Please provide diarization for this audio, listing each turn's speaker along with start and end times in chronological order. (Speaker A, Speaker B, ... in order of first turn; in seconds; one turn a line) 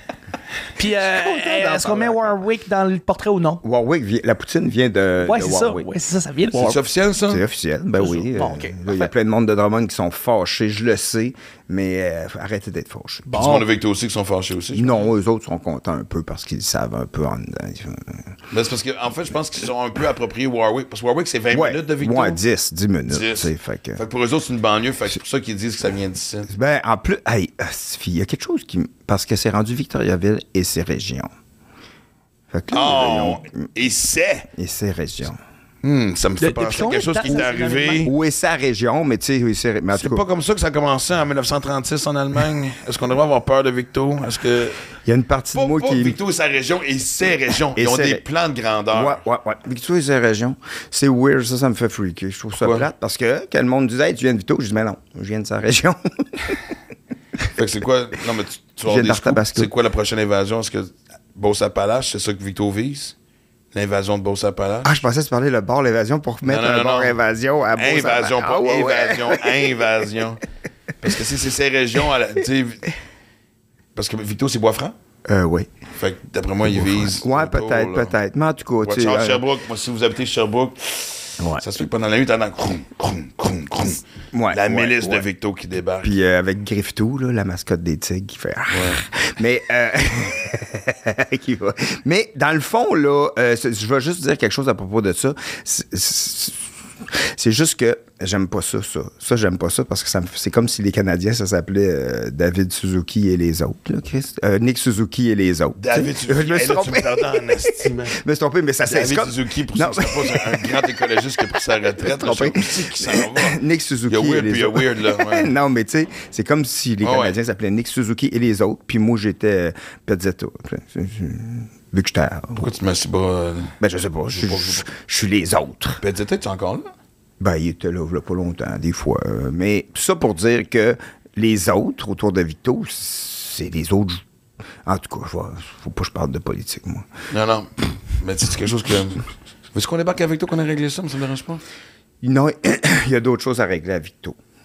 Speaker A: 0.8-3.6
Speaker B: 1.0-2.3
Speaker B: 3.6-5.9
Speaker A: 5.2-6.8
Speaker C: 6.5-7.4
Speaker B: 7.3-13.4
Speaker A: 8.0-9.1
Speaker A: 13.3-13.6
Speaker C: 13.3-15.1
Speaker B: 14.7-18.3
Speaker C: 18.5-22.4
Speaker B: 21.5-24.0
Speaker C: 23.1-26.5
Speaker B: 26.5-31.3
Speaker B: 32.5-33.6
Speaker C: 32.7-34.5
Speaker B: 34.5-35.4
Speaker C: 35.8-38.1
Speaker A: 36.4-38.1
Speaker B: 37.2-40.2
Speaker C: 39.9-44.8
Speaker B: 45.0-46.2
Speaker C: 45.5-49.2
Speaker B: 47.7-48.2
Speaker B: 48.9-56.6
Speaker C: 52.6-52.9
Speaker C: 57.5-63.1
Speaker B: 58.8-59.7
Speaker C: 63.7-65.0
Speaker B: 64.8-69.6
Speaker C: 66.4-67.2
Speaker C: 67.7-70.4
Speaker C: 71.0-72.9
Speaker C: 73.9-75.0
Speaker B: 75.3-75.7
Speaker C: 75.9-78.1
Speaker B: 76.6-79.4
Speaker C: 78.8-86.1
Speaker B: 81.4-81.6
Speaker B: 84.3-85.2
Speaker B: 86.0-110.8
Speaker C: 88.7-89.0
Speaker C: 105.8-108.2
Speaker C: 108.8-115.5
Speaker B: 111.9-122.7
Speaker C: 117.0-117.4
Speaker C: 122.5-124.9
Speaker B: 123.8-126.0
Speaker C: 126.0-126.9
Speaker B: 127.4-134.2
Speaker B: 134.8-137.1
Speaker C: 137.3-141.6
Speaker B: 142.2-144.3